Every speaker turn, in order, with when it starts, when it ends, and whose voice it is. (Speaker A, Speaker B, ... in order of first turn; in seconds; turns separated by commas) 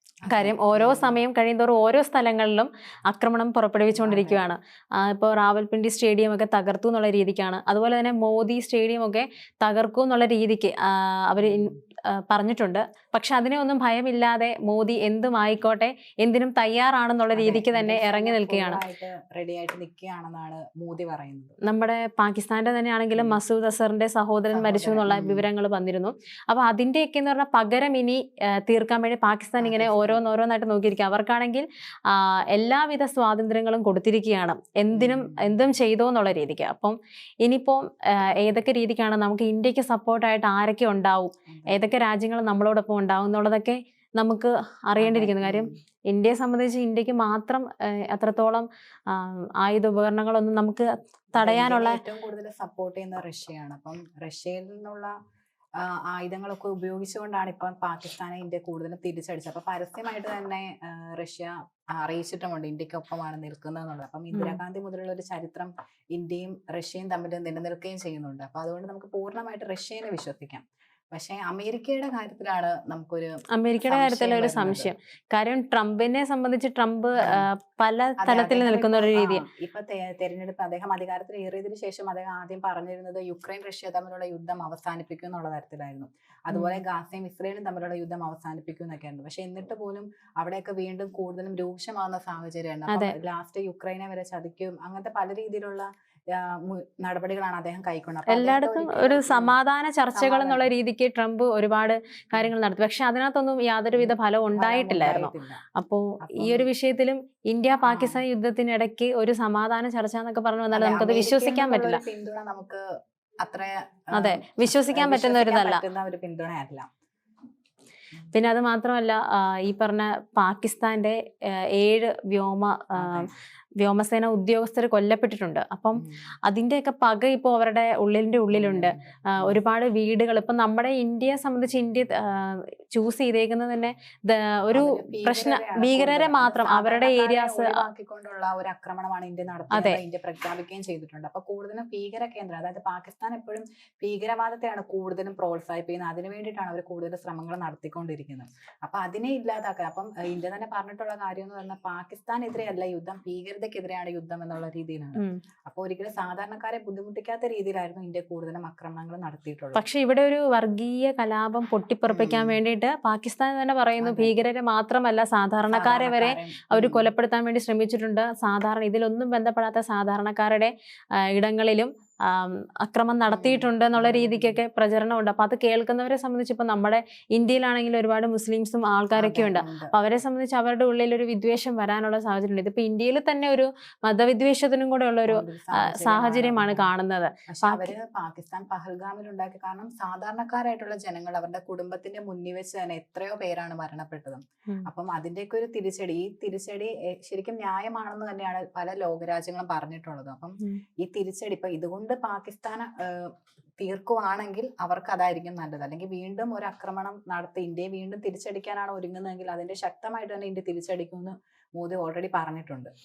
Speaker A: 0.3-1.2, Speaker B: 0.3-18.8, Speaker A: 3.9-4.4, Speaker A: 11.4-11.8, Speaker A: 17.4-21.6, Speaker B: 21.6-52.0, Speaker A: 23.1-23.4, Speaker A: 24.5-25.4, Speaker A: 29.6-30.2, Speaker A: 34.9-35.5, Speaker A: 41.5-41.8, Speaker A: 45.0-45.8, Speaker A: 51.4-55.1, Speaker A: 55.8-73.3, Speaker B: 64.3-64.6, Speaker B: 73.5-79.4, Speaker A: 73.9-74.9, Speaker A: 77.2-77.5, Speaker A: 78.2-99.5, Speaker B: 86.5-86.8, Speaker B: 98.3-112.0, Speaker A: 100.1-100.7, Speaker A: 103.9-105.6, Speaker A: 106.2-106.7, Speaker A: 107.8-108.2, Speaker A: 110.7-112.8, Speaker A: 113.4-116.9, Speaker B: 114.1-115.8, Speaker B: 118.3-137.8, Speaker A: 123.0-123.3, Speaker A: 126.0-126.2, Speaker A: 128.5-129.6, Speaker A: 134.7-159.8, Speaker B: 139.7-140.0, Speaker B: 159.8-187.9, Speaker A: 162.1-162.6, Speaker A: 164.0-164.4, Speaker A: 165.7-167.1, Speaker A: 173.3-174.6, Speaker A: 179.2-179.9, Speaker A: 185.3-186.9, Speaker A: 187.5-212.9